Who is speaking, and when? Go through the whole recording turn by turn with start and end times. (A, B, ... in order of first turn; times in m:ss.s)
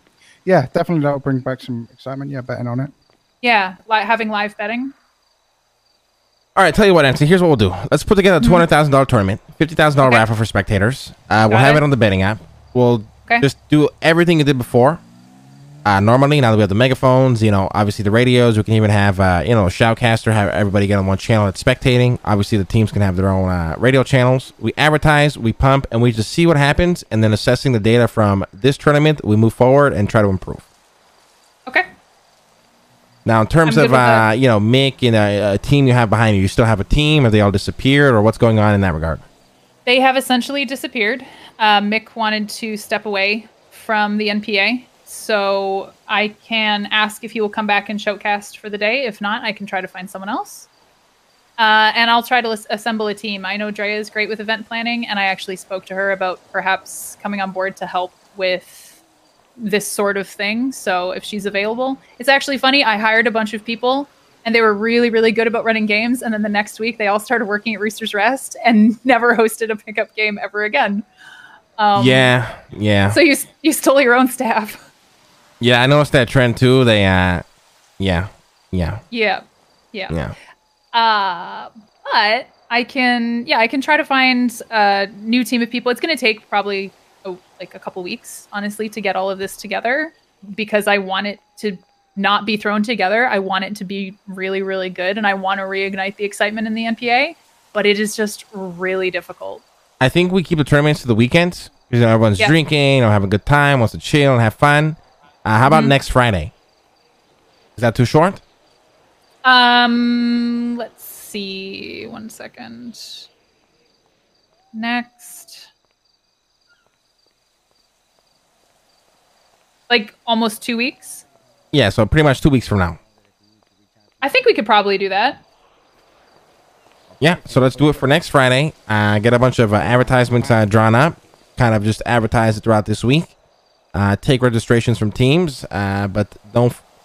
0:00.4-0:02.9 A
0:03.4-0:04.9 B
0:06.5-0:15.0 C
0:08.4-0:08.6 B
0:11.4-0:11.8 B
0:15.8-0:30.6 C
0:33.2-0:39.2 C
0:33.6-0:34.2 B
0:39.8-0:50.7 B
0:51.6-0:59.0 B
0:59.6-1:11.1 B
1:11.8-1:12.3 B
1:12.0-1:13.2 C
1:13.1-1:14.8 B
1:15.6-1:17.4 C
1:18.0-1:19.0 C
1:19.1-1:20.1 B
1:20.1-1:20.3 C
1:20.9-1:39.6 B
1:40.0-1:46.5 C
1:45.7-1:45.9 B
1:47.8-1:48.4 C
1:49.4-1:53.3 B
1:54.7-1:55.7 B
1:59.9-2:01.2 B
2:01.7-2:03.0 C
2:04.2-2:05.4 B
2:07.2-2:13.3 C
2:13.9-2:16.8 C